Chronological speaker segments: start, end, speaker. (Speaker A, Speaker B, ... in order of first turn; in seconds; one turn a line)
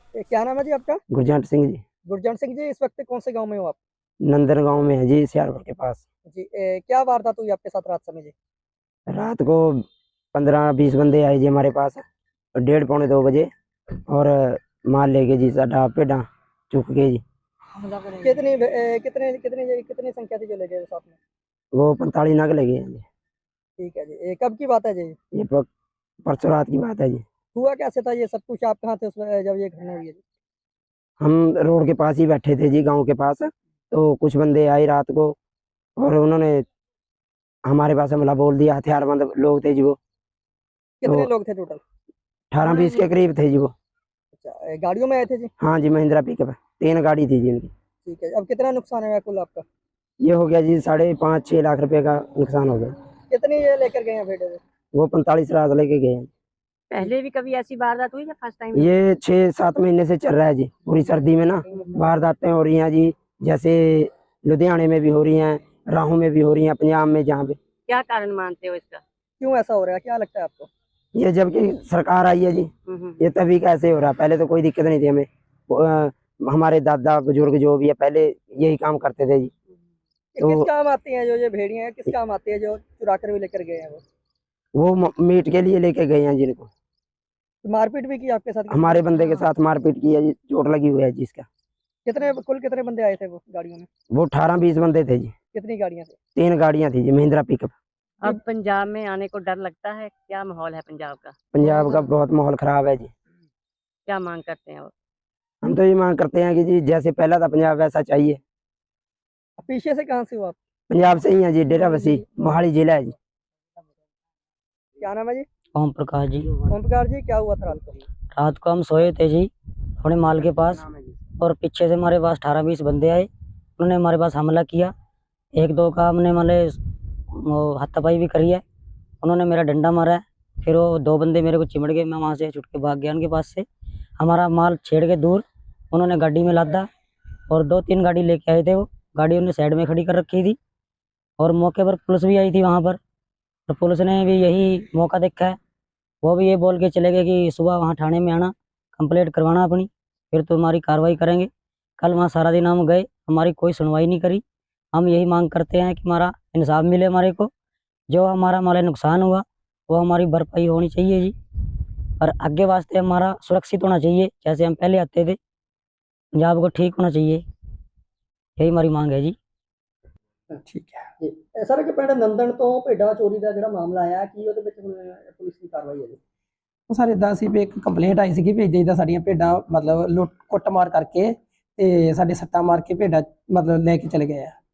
Speaker A: 0.1-1.0
Speaker B: 1.1-1.8
Speaker A: 2.1-3.8
Speaker B: 4.2-6.0
Speaker A: 6.3-8.3
Speaker B: 9.1-12.0
Speaker B: 12.6-13.5
Speaker B: 14.1-17.2
Speaker A: 18.2-21.2
Speaker B: 21.7-23.1
Speaker A: 23.8-25.1
Speaker B: 25.3-25.7
Speaker B: 26.2-27.2
Speaker A: 27.5-30.2
Speaker B: 31.2-35.4
Speaker B: 36.0-36.6
Speaker B: 37.6-40.0
Speaker A: 41.0-41.8
Speaker B: 42.5-43.7
Speaker A: 44.3-45.5
Speaker B: 45.6-47.7
Speaker A: 48.0-49.6
Speaker B: 50.2-52.9
Speaker A: 53.3-54.6
Speaker B: 54.9-56.3
Speaker C: 56.9-58.9
Speaker B: 58.7-67.6
Speaker C: 67.9-69.0
Speaker A: 69.4-70.7
Speaker B: 71.1-79.5
Speaker C: 72.9-73.2
Speaker A: 80.3-84.0
Speaker B: 84.8-86.7
Speaker A: 87.6-89.3
Speaker B: 88.7-91.5
Speaker A: 92.1-93.9
Speaker B: 94.1-95.3
Speaker A: 95.5-96.2
Speaker B: 96.3-97.7
Speaker C: 98.2-101.4
Speaker B: 101.5-103.1
Speaker C: 104.1-104.9
Speaker B: 105.6-108.4
Speaker A: 109.6-110.5
Speaker B: 110.9-113.2
Speaker A: 115.0-115.5
Speaker D: 115.8-116.5
Speaker A: 116.6-118.0
Speaker D: 118.3-120.8
Speaker D: 121.4-124.9
Speaker D: 125.5-126.8
Speaker D: 127.3-128.6
Speaker D: 129.2-133.7
Speaker D: 134.2-136.9
Speaker D: 137.5-140.6
Speaker D: 141.4-143.0
Speaker D: 143.7-145.6
Speaker D: 146.2-154.4
Speaker D: 154.9-157.5
Speaker D: 158.1-161.3
Speaker D: 162.2-165.4
Speaker D: 166.4-167.4
Speaker D: 168.6-169.4
Speaker E: 170.7-171.1
Speaker A: 171.2-176.2
Speaker E: 176.9-184.6